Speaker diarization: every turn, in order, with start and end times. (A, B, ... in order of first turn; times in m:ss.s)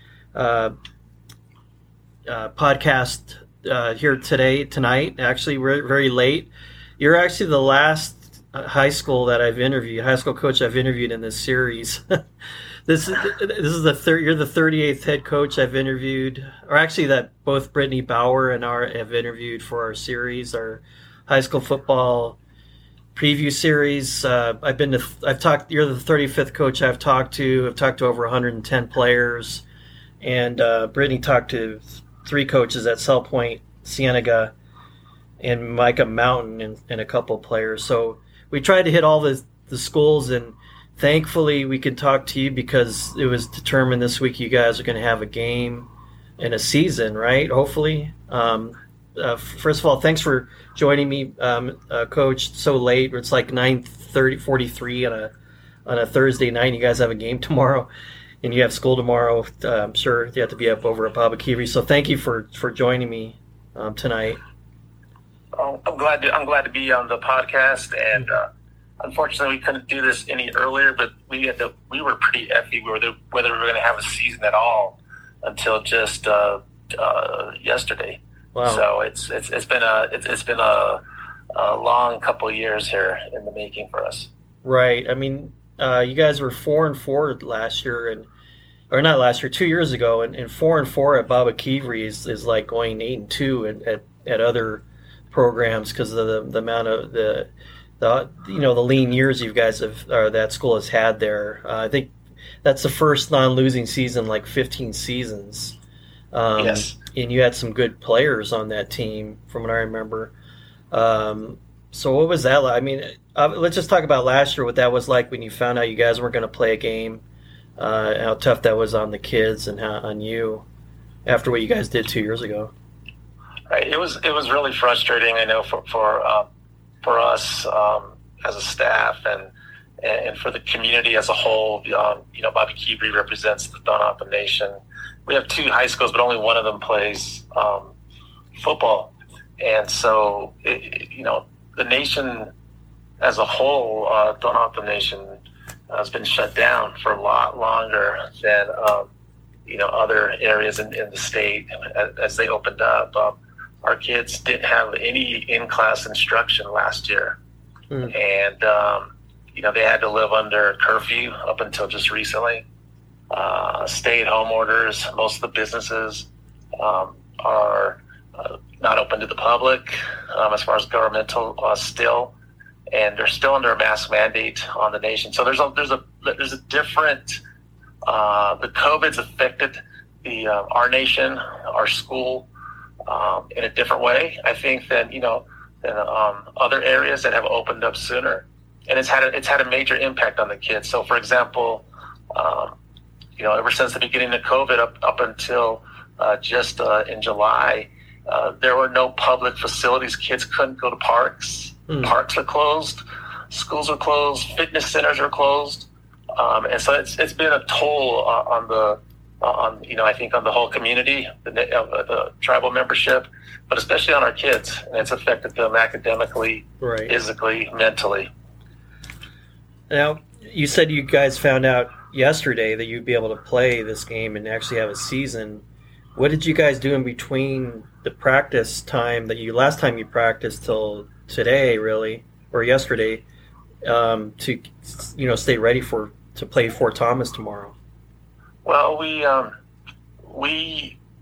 0:00.3-0:00.7 A
0:02.3-0:12.2 A
0:12.9-0:22.4 A
0:23.2-0:29.6 A
0:30.2-0:34.5 A
0:35.4-0:55.3 A
0:55.9-0:57.9 A
0:58.4-1:04.4 A
1:05.6-1:08.5 B
1:09.0-1:21.0 B
1:18.5-1:18.8 A
1:21.5-1:24.3 B
1:24.6-1:28.3 A
1:28.9-1:37.5 A
1:38.0-1:45.8 A
1:46.3-1:50.3 A
1:46.6-1:47.0 B
1:50.9-1:57.2 A
1:57.8-2:00.6 A
2:01.3-2:02.7 A
2:03.7-2:06.5 B
2:07.0-2:09.5 B
2:10.0-2:17.9 B
2:18.6-2:22.5 B
2:23.2-2:25.4 B
2:25.9-2:29.1 B
2:29.7-2:37.4 B
2:38.1-2:42.6 B
2:43.3-2:52.3 B
2:52.9-2:57.4 B
2:58.1-3:02.5 B
3:03.1-3:12.8 B
3:13.4-3:38.3 B
3:21.9-3:22.1 A
3:36.8-3:37.2 A
3:39.9-3:45.6 A
3:46.2-3:53.2 A
3:53.8-3:57.8 A
3:58.6-3:59.5 B
4:00.3-4:01.0 B